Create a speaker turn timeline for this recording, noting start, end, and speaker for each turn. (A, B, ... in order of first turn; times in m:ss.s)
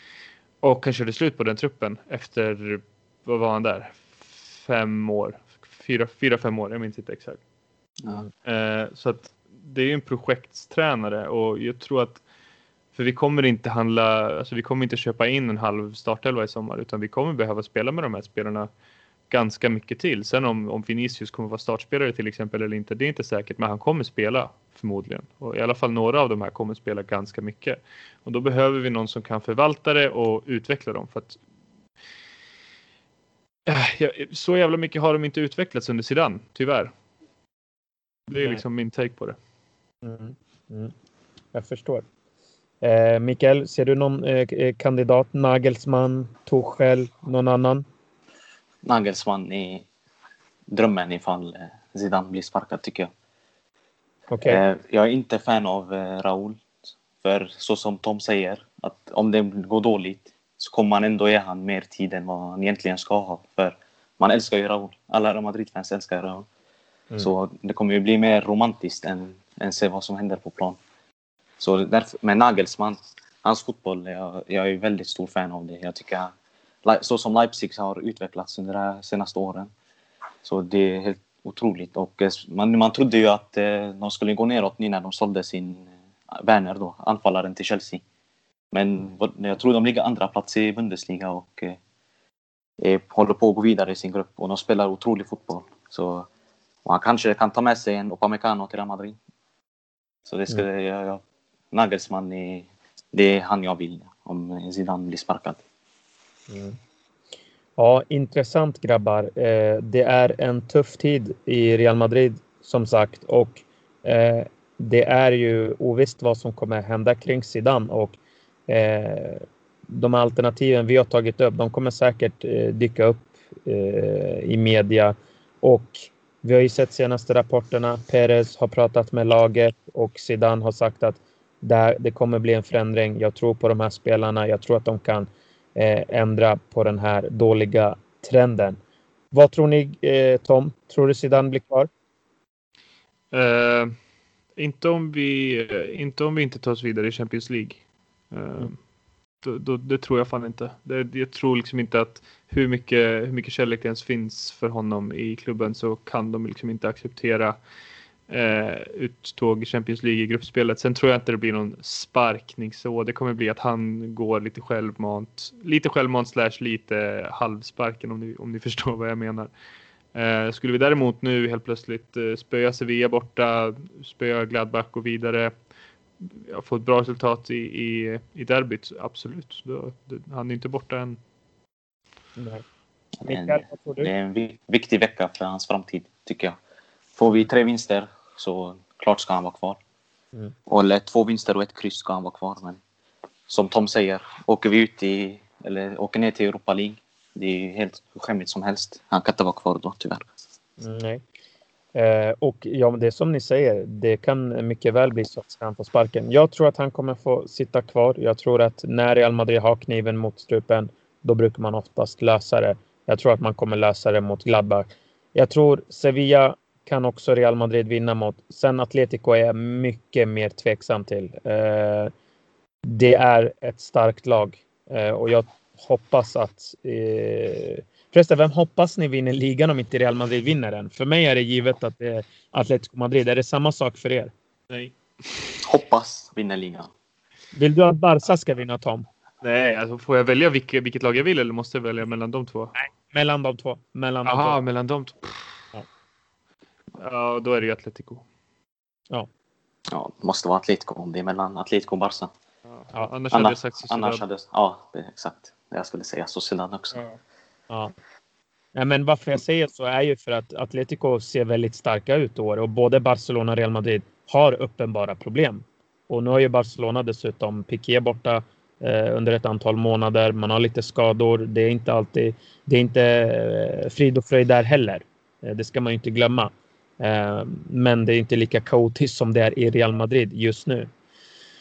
0:00.6-0:07.4 A
0:08.4-0:12.2 A
0:12.9-0:18.7 A
0:19.3-0:31.4 A
0:33.6-0:36.9 A
0:38.3-0:39.4 A
0:40.0-0:40.9 B
0:41.5-0:42.0 B
0:42.8-0:47.8 B
0:48.8-0:49.8 C
0:50.7-0:53.1 C
0:54.3-0:54.6 B
0:54.4-1:06.4 C
1:07.2-1:10.8 C
1:11.6-1:16.3 C
1:16.8-1:19.7 C
1:20.4-1:28.0 C
1:28.7-1:31.8 C
1:32.8-1:36.3 C
1:36.8-1:39.2 C
1:40.2-1:45.6 C
1:46.5-1:46.8 B
1:47.8-2:18.8 B
2:19.3-2:21.9 B
2:23.3-2:23.9 A
2:24.6-2:27.8 A
2:28.3-2:28.8 A
2:29.4-2:37.6 A
2:38.3-2:49.5 A
2:50.1-2:55.5 A
2:56.2-3:01.2 A
3:02.4-3:02.6 B
3:03.2-3:06.6 C
3:03.2-3:04.1 B
3:07.2-3:09.8 C
3:10.7-3:12.8 C
3:13.5-3:20.2 C
3:20.8-3:21.2 B
3:21.9-3:42.1 B
3:42.8-3:54.3 B
3:55.6-3:56.9 C
3:57.5-3:59.0 B
3:59.4-4:02.7 A
4:02.8-4:04.6 B
4:04.2-4:05.6 A
4:07.0-4:08.2 A
4:09.9-4:12.3 C
4:12.7-4:14.2 A
4:13.3-4:17.0 C
4:16.9-4:17.2 A
4:18.8-4:40.9 B